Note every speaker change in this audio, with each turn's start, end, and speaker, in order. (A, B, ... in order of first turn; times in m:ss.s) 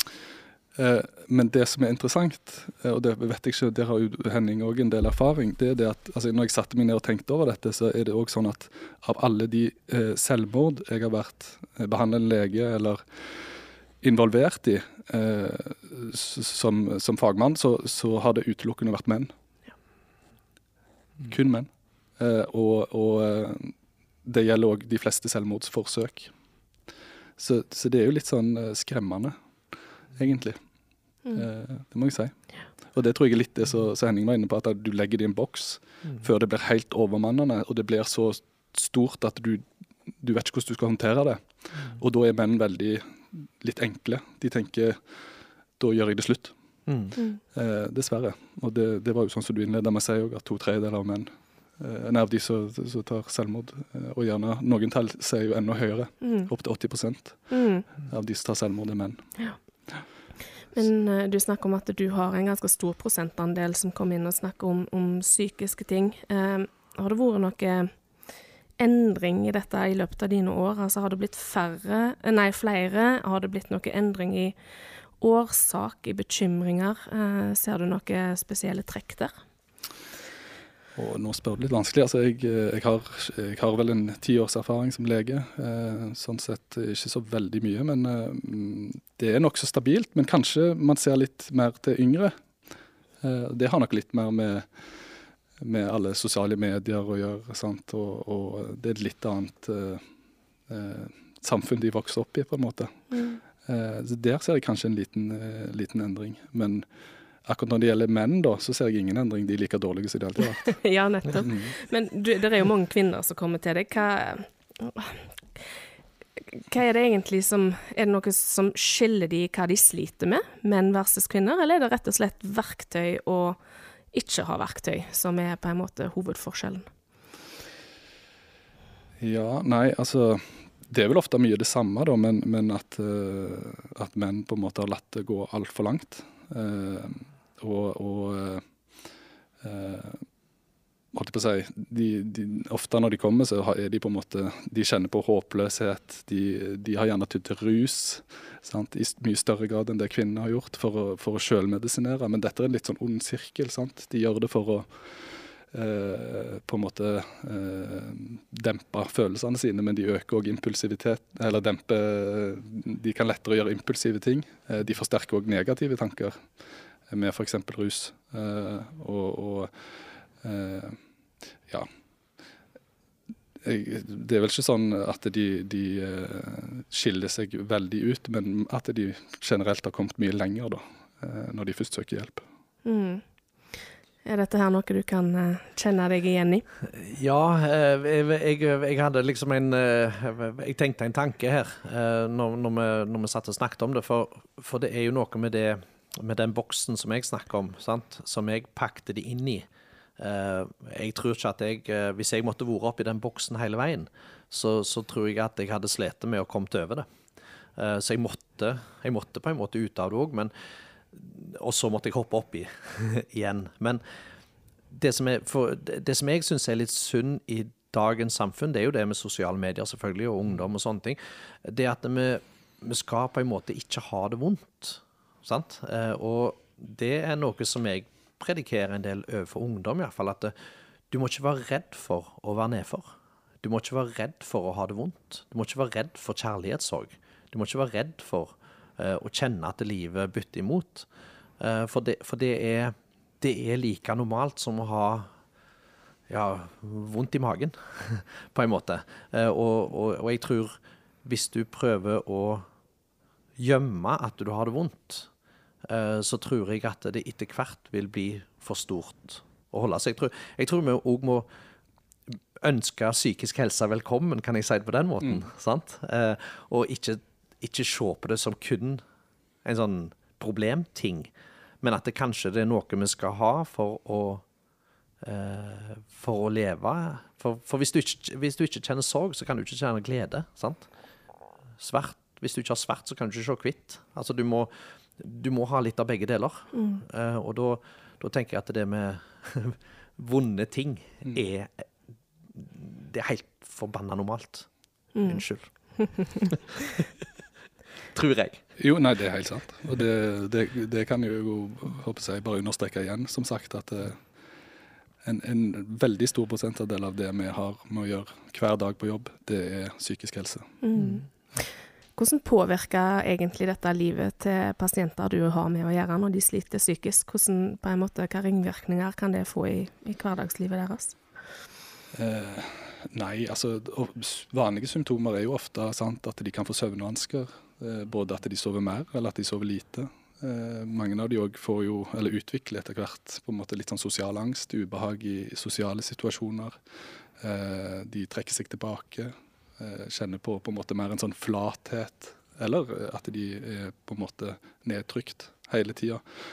0:00.8-0:13.5 A
0:14.0-0:19.3 A
0:21.3-0:23.7 A
0:24.2-0:26.3 A
0:27.4-0:29.3 A
0:30.2-0:30.6 A
0:31.3-0:32.3 A
0:32.9-0:39.6 A
0:40.2-0:45.0 A
0:45.8-0:46.5 A
0:46.9-0:47.1 B
0:47.5-0:51.3 A
0:51.8-0:57.5 A
0:56.2-0:56.5 C
0:57.5-0:57.8 C
0:58.1-0:59.2 A
1:00.7-1:07.9 C
1:08.8-1:14.5 C
1:15.2-1:19.3 C
1:21.0-1:32.3 A
1:33.2-1:34.7 A
1:35.6-1:40.0 A
1:40.7-1:43.0 A
1:43.1-1:43.4 C
1:43.6-1:46.8 A
1:47.4-1:50.8 A
1:50.6-1:55.7 C
1:51.4-1:51.7 A
1:56.4-2:03.6 C
2:04.1-2:06.9 C
2:09.2-2:18.6 A
2:19.6-2:20.2 A
2:21.1-2:46.4 A
2:47.1-2:49.7 A
2:50.4-2:51.0 A
2:53.6-3:02.4 A
3:02.8-3:03.2 C
3:04.2-3:06.6 C
3:06.9-3:19.7 B
3:20.2-3:27.1 B
3:27.8-3:30.5 B
3:31.1-3:34.0 B
3:34.9-3:50.5 B
3:51.1-3:53.1 B
3:53.6-4:01.1 B
4:01.6-4:05.3 B
4:06.3-4:12.7 B
4:13.6-4:15.3 B
4:15.8-4:21.5 B
4:22.3-4:29.0 B
4:29.6-4:31.3 B
4:31.8-4:34.4 B
4:35.2-4:40.9 B
4:41.8-4:51.8 B
4:46.7-4:47.0 C
4:52.5-4:54.7 B
4:55.1-4:55.4 C
4:55.2-4:55.7 B
4:56.0-4:56.3 C
4:56.5-4:57.0 B
4:58.1-4:58.6 B
4:58.8-5:04.2 A
5:05.2-5:10.7 A
5:10.8-5:21.2 C
5:22.1-5:36.8 A
5:37.4-5:46.2 A